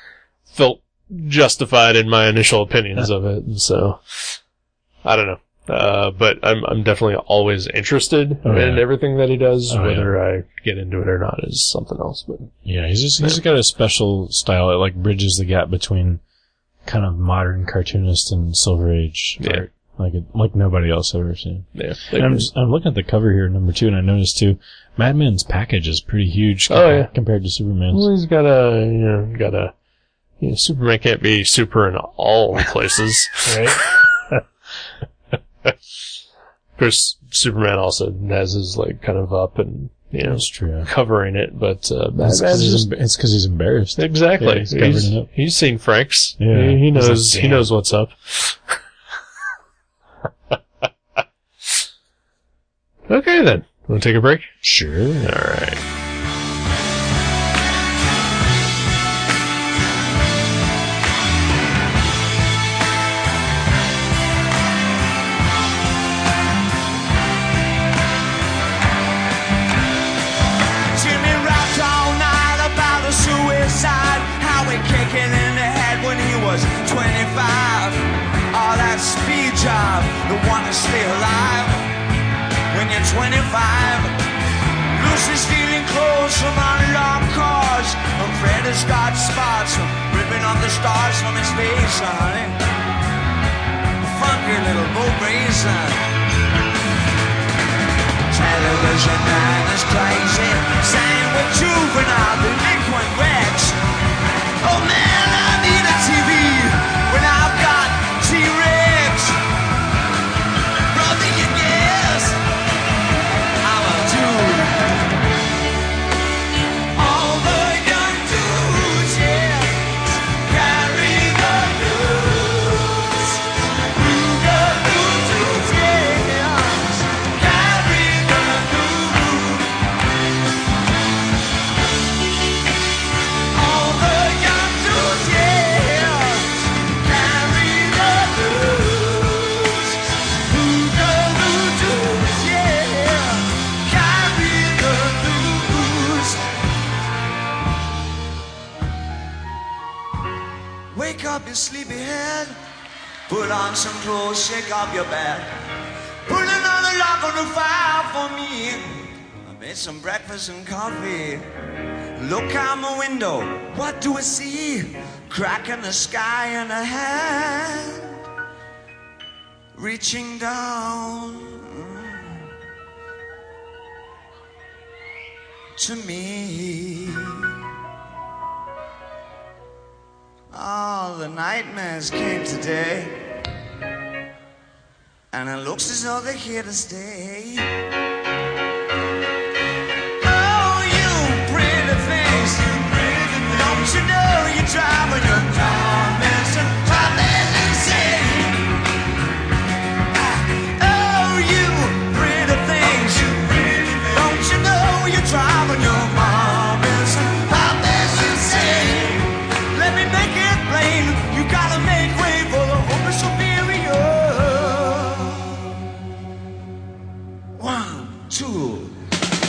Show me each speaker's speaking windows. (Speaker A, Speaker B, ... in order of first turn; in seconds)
Speaker A: 0.5-4.4, 5.0-12.5, 19.4-19.6, 21.7-22.5, 26.7-27.1, 27.9-29.7, 30.4-34.0, 36.8-42.9, 44.0-48.7, 53.1-54.5, 55.2-55.8
Speaker B: 8.4-8.9, 9.7-10.1, 12.6-16.2, 16.8-28.1, 33.4-33.8, 40.2-40.9, 42.2-45.3, 46.4-47.7, 54.6-55.4
Speaker C: 70.9-81.9, 82.7-84.2, 84.9-92.6, 94.1-96.0, 98.3-103.8, 104.6-109.4, 110.9-112.4, 113.6-114.9, 116.9-129.7, 133.5-146.5, 150.9-152.6, 153.3-155.5, 156.2-161.5, 162.2-168.2, 169.7-172.4, 175.8-177.5, 180.5-183.1, 185.3-187.7, 190.2-198.7, 200.2-215.7, 217.6-219.0